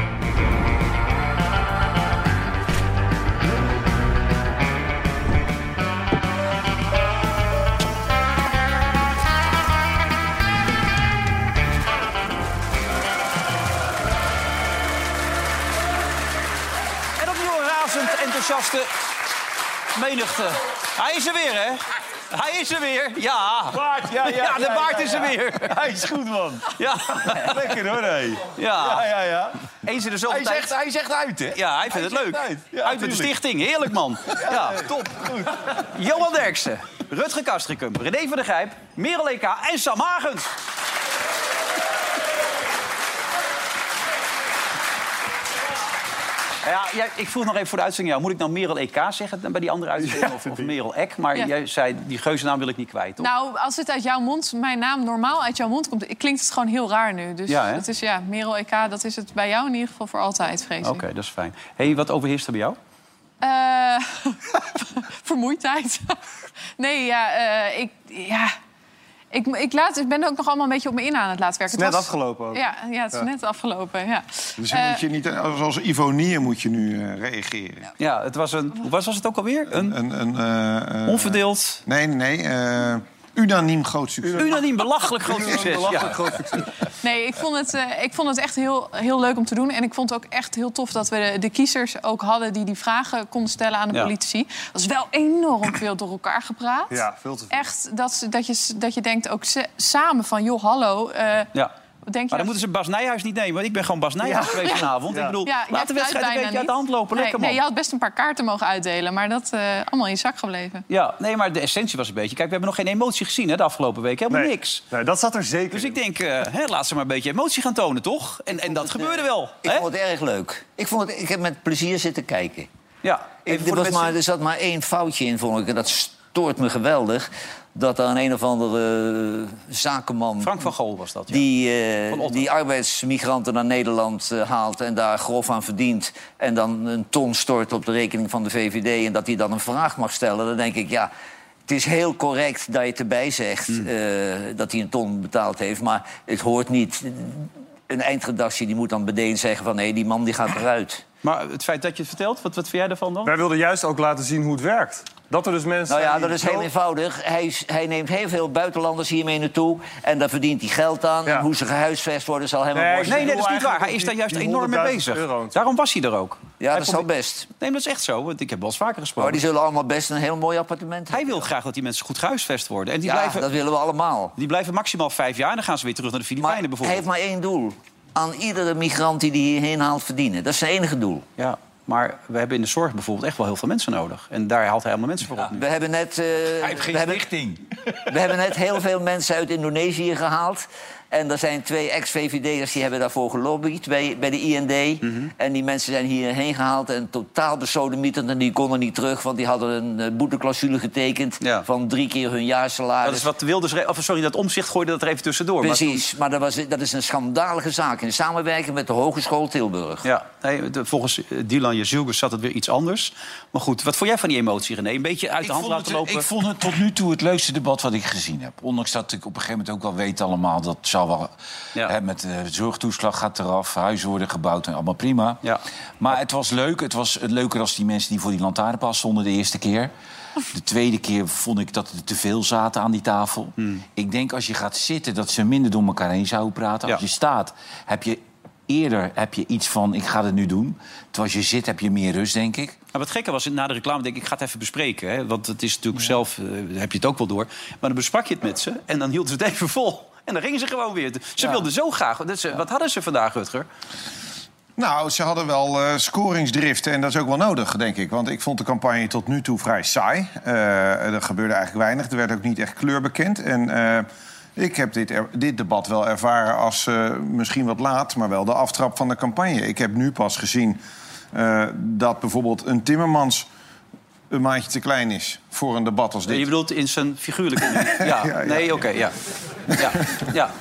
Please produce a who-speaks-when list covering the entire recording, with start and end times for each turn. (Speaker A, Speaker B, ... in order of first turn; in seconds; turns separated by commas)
Speaker A: 17.2-18.9, Speaker A: 19.9-25.8, Speaker B: 23.7-29.5, Speaker A: 26.8-27.7, Speaker A: 28.5-29.1, Speaker A: 29.8-30.7, Speaker B: 30.3-33.3, Speaker A: 31.5-34.9, Speaker B: 34.3-35.8, Speaker A: 35.8-40.5, Speaker A: 46.6-53.3, Speaker C: 50.0-50.7, Speaker D: 53.2-61.0, Speaker A: 57.5-57.8, Speaker A: 60.8-62.8, Speaker D: 63.4-66.2, Speaker D: 66.8-68.5, Speaker D: 69.3-75.0, Speaker C: 71.7-72.6, Speaker E: 74.6-77.9, Speaker A: 78.0-80.0, Speaker E: 79.7-84.6, Speaker A: 81.1-81.8, Speaker A: 84.4-86.2, Speaker C: 85.2-86.7, Speaker D: 87.0-101.5, Speaker C: 96.9-97.6, Speaker D: 102.1-102.6, Speaker A: 102.3-107.6, Speaker C: 104.2-105.4, Speaker D: 105.5-110.8, Speaker A: 110.9-114.8, Speaker C: 114.3-116.0, Speaker A: 115.7-119.9, Speaker F: 118.8-122.7, Speaker A: 123.0-124.2, Speaker F: 123.5-130.7, Speaker A: 130.4-131.4, Speaker F: 131.3-141.1, Speaker A: 132.1-132.5, Speaker F: 141.7-151.0, Speaker A: 151.2-153.3, Speaker C: 153.2-156.7, Speaker F: 155.9-163.3, Speaker C: 162.7-165.6, Speaker A: 163.1-167.1, Speaker F: 166.6-167.5, Speaker A: 167.6-169.4, Speaker F: 169.2-171.5, Speaker A: 171.1-173.5, Speaker F: 173.1-174.3, Speaker A: 174.4-177.0, Speaker F: 176.4-181.2, Speaker A: 181.4-185.6, Speaker F: 185.6-187.2, Speaker B: 186.6-187.6, Speaker F: 188.1-203.3, Speaker A: 195.0-195.3, Speaker A: 203.0-206.1, Speaker F: 205.6-210.1, Speaker A: 210.0-216.3, Speaker B: 215.4-225.4, Speaker B: 226.0-229.9, Speaker B: 230.5-242.8, Speaker A: 242.9-253.7, Speaker E: 254.8-270.8, Speaker E: 271.3-273.5, Speaker E: 274.3-276.5, Speaker A: 276.3-279.1, Speaker E: 277.6-278.8, Speaker A: 279.8-280.5